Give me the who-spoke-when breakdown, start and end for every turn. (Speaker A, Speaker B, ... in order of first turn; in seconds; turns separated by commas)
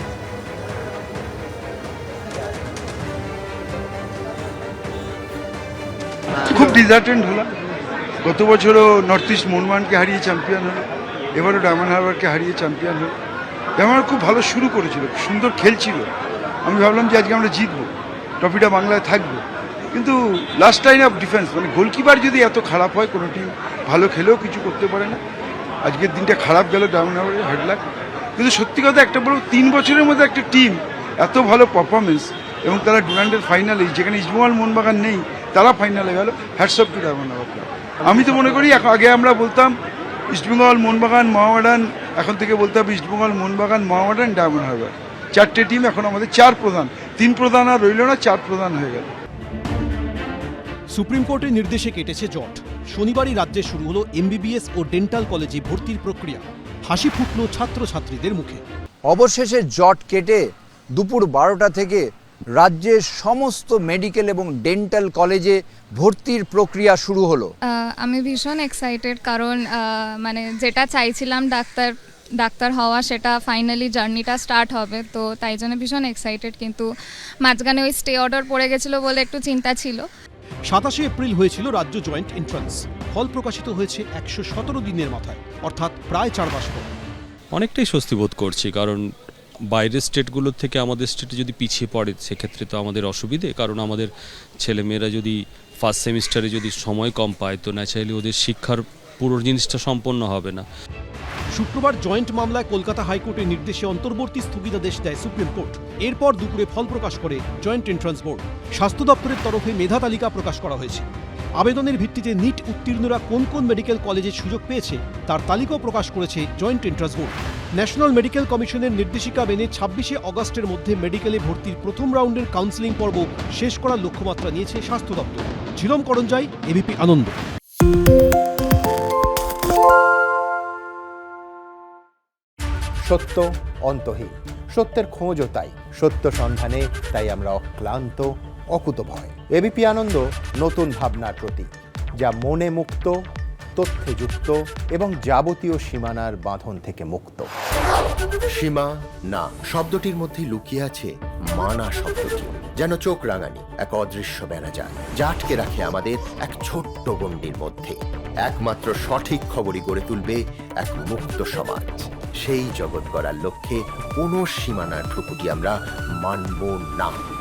Speaker A: 6.5-7.5, Speaker A: 8.2-13.1, Speaker A: 13.8-16.1, Speaker A: 16.6-17.9, Speaker A: 18.4-19.4, Speaker A: 19.9-25.2, Speaker A: 25.8-27.8, Speaker A: 28.4-39.8, Speaker A: 40.3-49.1, Speaker B: 51.0-56.3, Speaker B: 56.9-58.5, Speaker C: 59.1-67.5, Speaker D: 67.7-76.9, Speaker D: 77.4-80.0, Speaker B: 80.7-86.7, Speaker E: 87.5-89.1, Speaker E: 89.7-94.1, Speaker E: 94.6-100.7, Speaker B: 101.6-110.8, Speaker B: 111.6-127.3, Speaker F: 133.0-143.2, Speaker F: 143.8-147.5, Speaker G: 148.5-167.2